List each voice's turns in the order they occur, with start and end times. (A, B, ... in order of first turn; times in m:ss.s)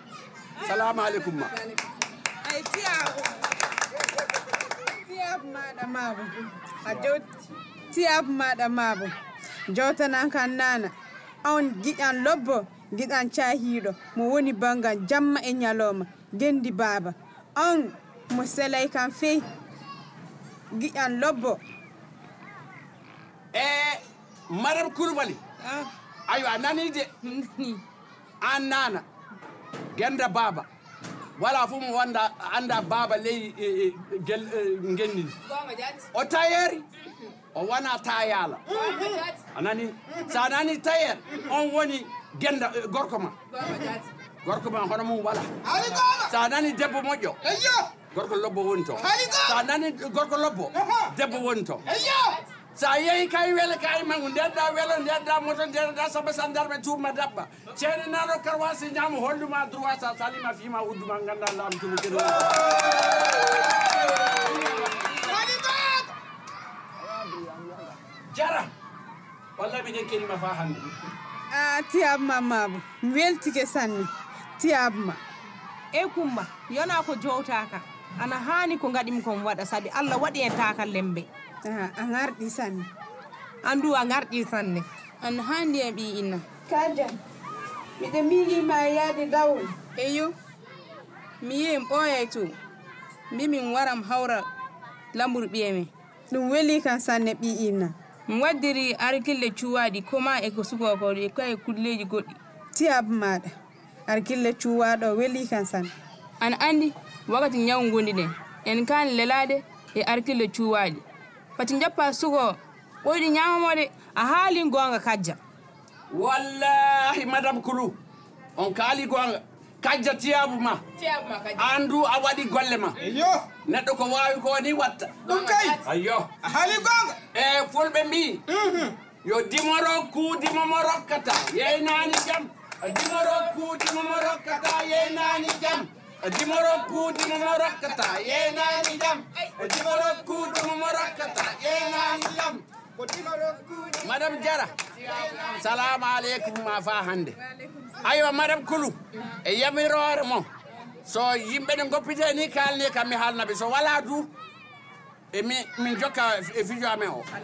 0:00.6-0:01.6 A
0:02.4-0:03.3 B
0:04.9-0:07.3 C
0:07.9-0:09.2 C
0:09.7-0:10.9 C
0:11.4-0:19.5 C
0:20.7-0:21.6 C
0:23.5-0:25.4 A
0:25.6-0:25.9 B
0:26.3-0:27.1 A
0:27.2-0:27.8 B
0:28.4-0:29.0 A
0:30.0-0:30.7 A
0:31.4-0:35.4 A
0:35.5-0:36.1 D
0:36.1-0:36.9 A
0:37.5-0:38.8 A
0:38.7-0:39.4 D
0:39.5-0:43.4 A
0:43.6-0:44.1 D
0:44.4-0:45.5 A
0:45.6-0:46.3 E
0:46.3-0:47.4 A
0:47.4-0:47.9 E
0:48.1-0:51.9 A
0:49.0-0:49.6 E
0:50.8-0:51.2 E
0:51.9-0:52.4 E
0:52.7-1:05.4 A
1:05.3-1:06.1 E
1:08.3-1:08.7 A
1:09.6-1:10.9 A
1:11.5-1:15.2 C
1:15.9-1:21.3 B
1:21.6-1:22.9 C
1:23.6-1:24.9 B
1:25.2-1:26.4 D
1:26.7-1:27.2 C
1:28.0-1:29.7 C
1:30.0-1:30.4 D
1:31.4-1:32.6 D
1:33.3-1:34.5 D
1:35.1-1:35.9 D
1:36.3-1:37.9 C
1:38.3-1:42.4 D
1:42.7-1:43.5 C
1:44.1-1:45.9 C
1:46.4-1:51.0 D
1:51.6-1:54.0 D
1:54.0-1:55.4 B
1:56.1-1:58.0 A
1:58.6-2:00.8 A
2:01.0-2:01.5 D
2:01.5-2:03.0 A
2:03.0-2:03.5 E
2:03.6-2:05.3 A
2:05.2-2:05.8 E
2:05.4-2:05.8 D
2:05.8-2:06.3 A
2:06.4-2:07.2 E
2:07.3-2:08.4 A
2:08.5-2:09.0 E
2:09.2-2:22.6 A
2:23.0-2:23.8 E
2:24.0-2:27.4 A
2:28.0-2:30.5 A
2:31.0-2:34.3 A
2:35.3-2:37.3 A